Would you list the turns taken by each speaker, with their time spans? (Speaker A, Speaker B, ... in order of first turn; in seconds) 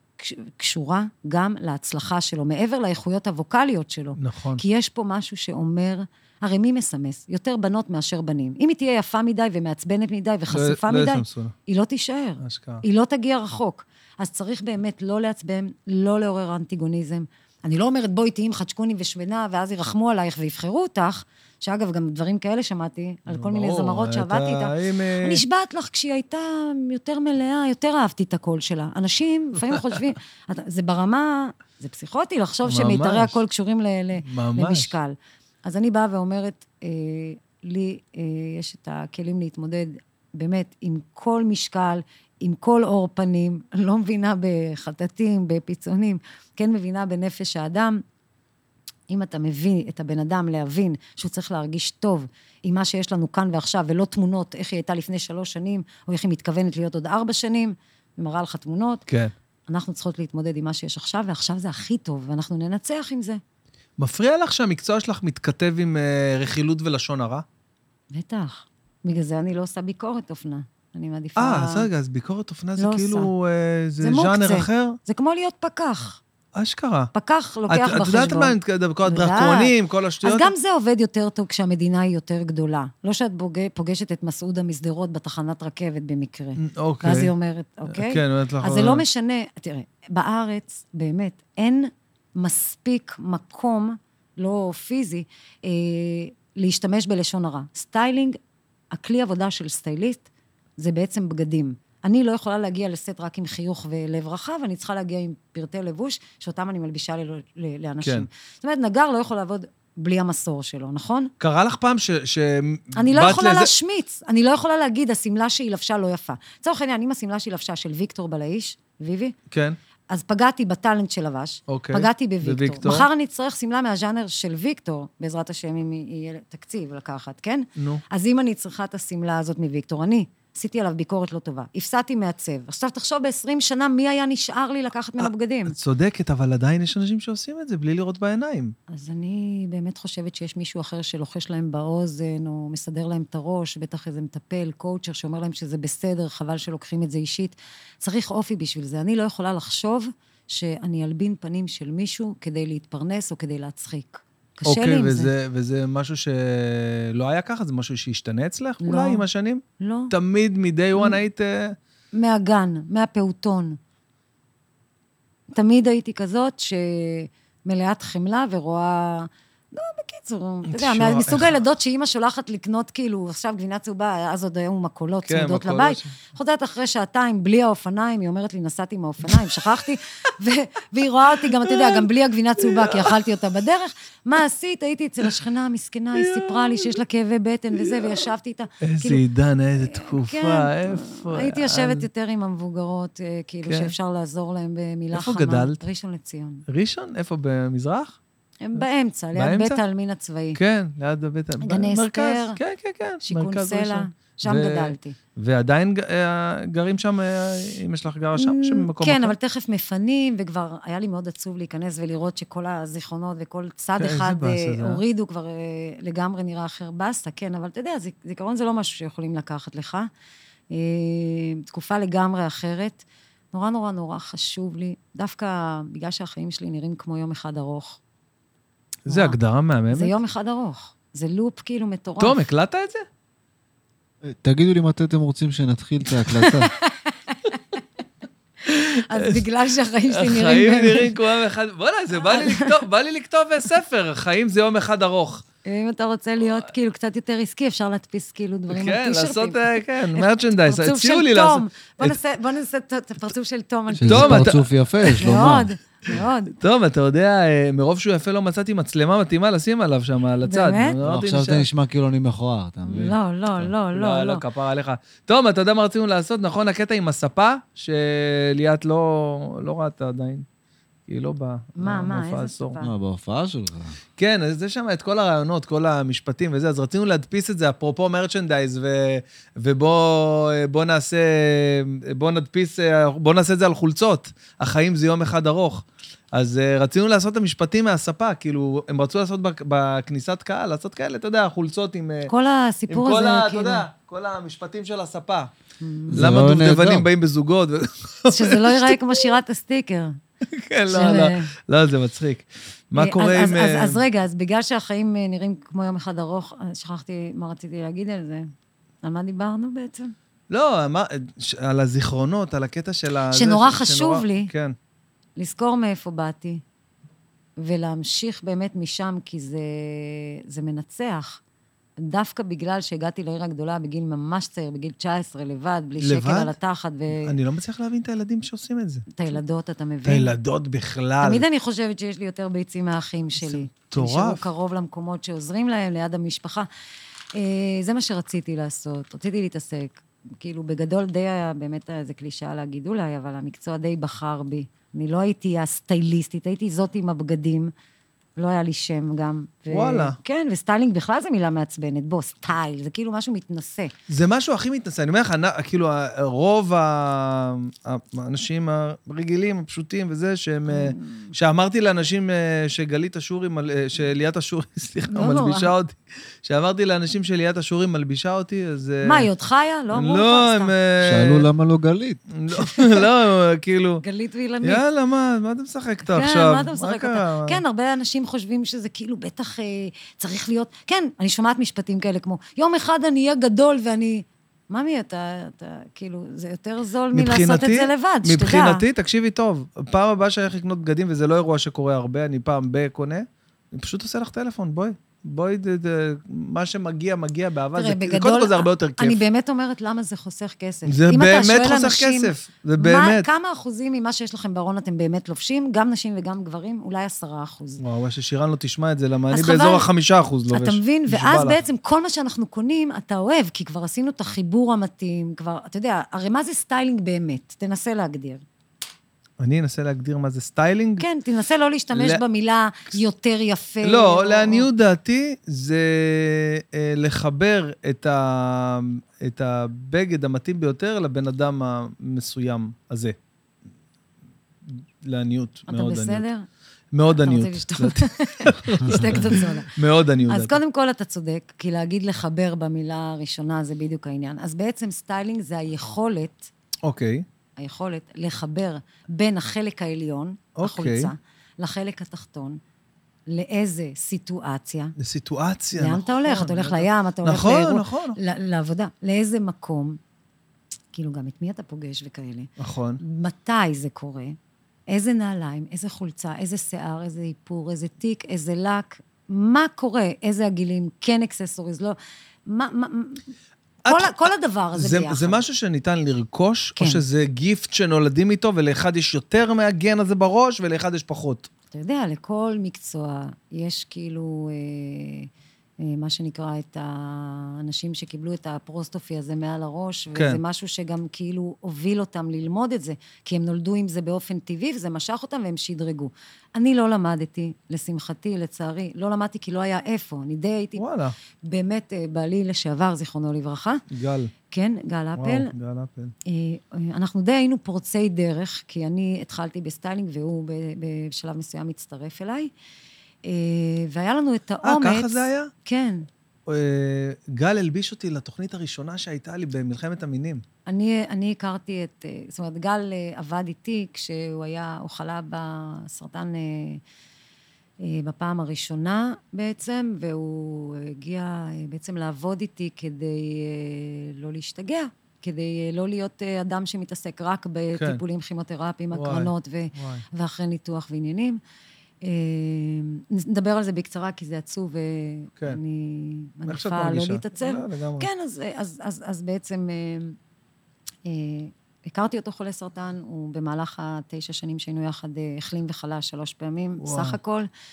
Speaker A: 0.2-48.0, 49.1-59.0, 59.7-63.4, 68.1-71.9, 72.8-73.3, 74.0-76.2, 77.1-78.5, 79.0-79.7, 80.2-98.4, 98.9-100.3, 100.8-111.3, 113.0-119.3, 120.1-135.7, 138.9-155.3, 158.8-159.2, 159.8-160.1, 162.1-163.8, 165.5-189.2, 189.8-196.6, 198.6-200.6, 201.6-202.6, 203.2-205.2, 208.3-220.1, 220.7-228.0, 229.1-229.3, 229.9-232.4, 236.2-237.6, 238.7-241.2, 242.2-242.8, 245.6-256.5, 260.5-261.0, 262.8-264.4, 271.8-272.9, 292.3-293.8, 295.8-296.4, 298.3-300.2, 300.9-301.5, 303.0-308.5, 309.0-310.1, 313.3-314.5, 315.4-316.6, 317.6-321.4, 322.0-327.3, 329.1-330.3, 331.2-336.7, 337.3-347.7, 348.4-353.9, 360.7-361.3, 365.1-365.7, 369.0-370.7, 372.5-373.0, 374.0-374.8, 376.1-388.8, 397.7-407.8, 409.3-409.8, 410.5-418.4, 421.0-424.7, 435.7-436.4, 437.1-439.7, 440.3-446.5, 447.6-452.6, 453.3-454.9, 455.8-460.0, 460.9-464.4, 464.9-473.2, 473.9-475.4, 481.7-485.3, 485.8-500.8, 501.4-503.8, 504.5-505.5, 506.2-512.5, 513.2-516.0, 520.6-526.8, 527.8-541.4, 542.0-550.2, 551.0-557.5
Speaker B: 4.2-4.6, 10.5-11.5, 12.4-12.8, 23.3-25.4, 32.6-33.3, 34.2-34.9, 59.1-59.3, 64.0-67.4, 71.4-75.0, 76.5-77.1, 77.7-80.5, 86.6-87.3, 87.9-89.0, 111.4-113.7, 119.5-119.8, 121.7-123.1, 127.8-128.0, 135.2-138.7, 154.7-161.8, 170.7-171.6, 175.3-176.2, 181.5-182.1, 182.6-183.2, 186.1-187.0, 187.8-188.2, 188.8-192.1, 193.7-193.9, 195.1-195.8, 196.7-198.2, 199.3-199.8, 200.5-209.3, 214.0-215.0, 229.1-230.1, 232.2-233.1, 239.1-239.4, 240.1-245.4, 248.7-252.2, 254.0-255.3, 256.6-261.7, 263.9-270.4, 271.1-272.8, 274.2-292.3, 292.9-295.5, 296.1-299.1, 300.5-304.0, 310.5-314.7, 326.0-326.5, 327.1-329.2, 330.1-331.4, 333.4-334.4, 349.7-350.2, 354.1-369.3, 369.9-371.5, 372.3-374.0, 374.6-377.6, 387.1-399.2, 400.9-403.2, 407.8-411.6, 419.4-421.0, 421.9-422.2, 423.8-433.1, 435.0-436.2, 436.9-440.6, 446.8-447.2, 450.6-451.1, 455.0-458.2, 462.6-463.0, 473.9-481.5, 490.1-490.4, 500.8-501.1, 503.9-504.3, 505.2-506.1, 514.6-515.5, 516.5-520.4, 537.8-538.0, 538.9-540.0, 546.5-548.1, 556.8-557.2
Speaker C: 234.2-236.7, 254.0-255.7, 261.0-263.7, 272.8-273.9, 296.1-297.1, 371.0-372.2